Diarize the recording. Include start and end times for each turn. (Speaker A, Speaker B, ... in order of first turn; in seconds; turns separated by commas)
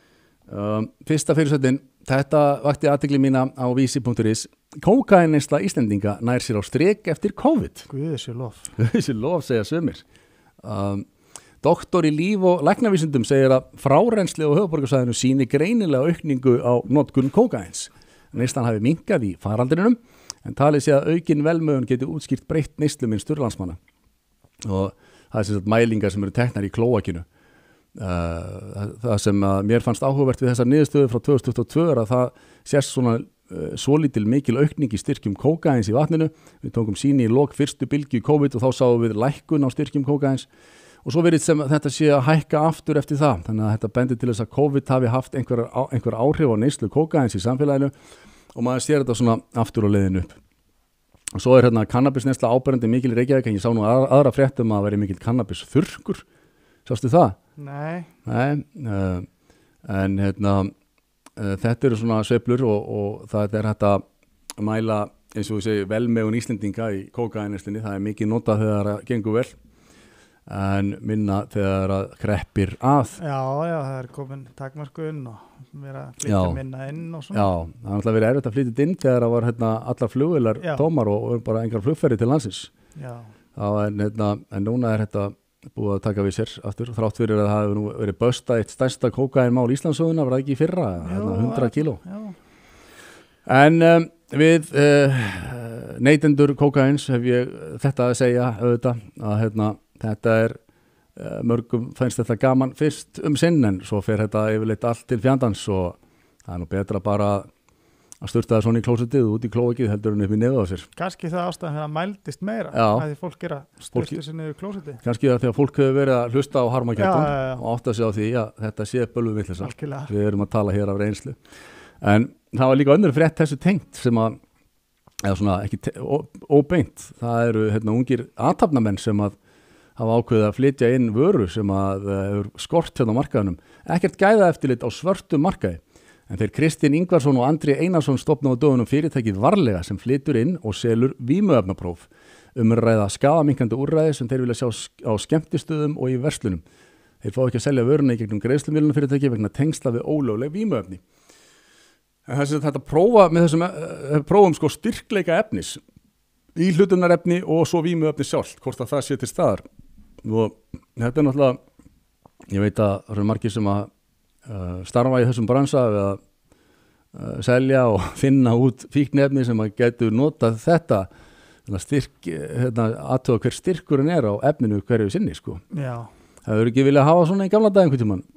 Speaker A: 0.5-7.9, Speaker B: 7.9-8.7, Speaker A: 8.8-10.0, Speaker A: 10.6-11.1, Speaker A: 11.6-23.8, Speaker A: 24.6-27.2, Speaker A: 27.9-40.5, Speaker A: 41.0-47.9, Speaker A: 48.5-50.4, Speaker A: 51.3-56.2, Speaker A: 56.9-57.4, Speaker B: 57.6-58.1, Speaker A: 58.2-59.3, Speaker A: 59.8-60.7, Speaker A: 61.4-64.0, Speaker A: 64.6-69.5, Speaker A: 70.5-73.2, Speaker B: 73.2-77.5, Speaker A: 76.2-76.6, Speaker A: 77.3-82.7, Speaker B: 80.6-80.9, Speaker B: 83.0-83.3, Speaker A: 83.5-92.0, Speaker B: 91.0-92.4, Speaker A: 93.4-100.6, Speaker A: 101.2-107.5, Speaker A: 108.2-110.9, Speaker B: 111.0-115.0, Speaker A: 112.7-113.1, Speaker A: 113.9-114.2, Speaker A: 115.0-121.4, Speaker B: 117.0-117.6, Speaker B: 119.6-120.1, Speaker A: 122.0-124.4, Speaker A: 125.2-129.3, Speaker A: 130.0-146.6, Speaker A: 147.2-151.0, Speaker A: 152.2-155.8, Speaker A: 156.6-159.6, Speaker A: 160.2-161.6, Speaker A: 162.5-163.9, Speaker A: 164.4-166.2, Speaker A: 167.1-171.1, Speaker A: 171.7-175.6, Speaker B: 175.7-176.1, Speaker A: 176.4-178.2